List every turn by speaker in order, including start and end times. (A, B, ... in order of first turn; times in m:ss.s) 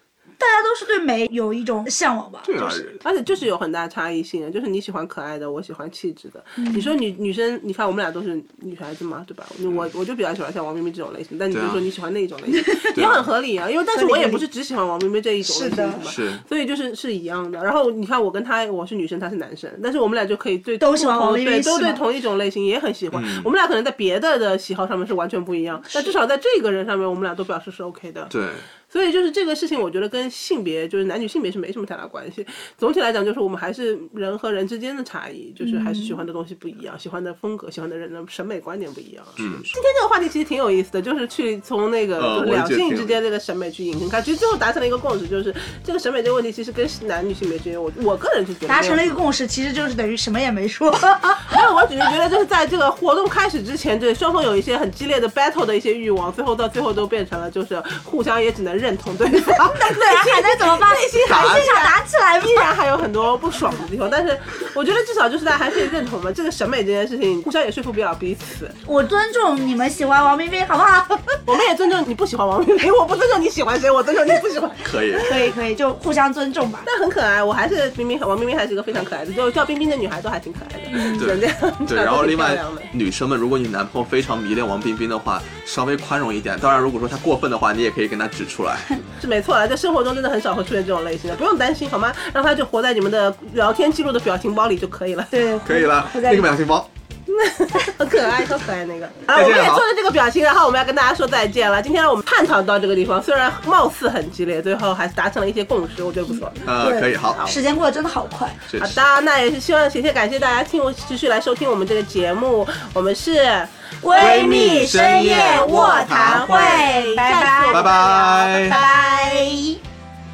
0:00.4-0:02.8 A
0:02.4-0:03.0 B
0:03.0-0:28.3 C
0:06.6-0:06.9 A
0:11.5-0:11.8 B
0:12.9-0:13.3 B
0:13.9-0:14.4 A
0:15.4-0:16.0 A
0:16.1-0:16.4 B
0:20.8-0:22.0 A
0:23.1-0:23.5 B
0:28.3-0:28.6 B
0:28.9-0:49.2 C
0:35.6-0:36.2 A
0:39.4-0:39.7 B
0:42.2-0:43.2 B
0:48.7-0:51.6 A
0:51.5-1:08.8 C
0:59.3-1:02.7 A
1:08.8-1:11.4 A
1:11.4-1:14.9 C
1:14.8-1:15.3 B
1:15.2-1:16.9 A
1:16.8-1:22.9 C
1:20.9-1:21.2 A
1:21.1-1:28.9 B
1:29.2-1:35.5 C
1:35.3-1:36.6 A
1:35.6-1:36.9 B
1:37.3-1:47.6 C
1:39.3-1:39.9 B
1:46.3-1:48.6 A
1:46.6-1:47.5 B
1:48.7-1:49.0 B
1:48.8-1:59.5 C
1:54.0-1:57.9 A
1:54.2-1:56.8 B
1:57.7-1:58.8 B
1:58.6-1:59.8 A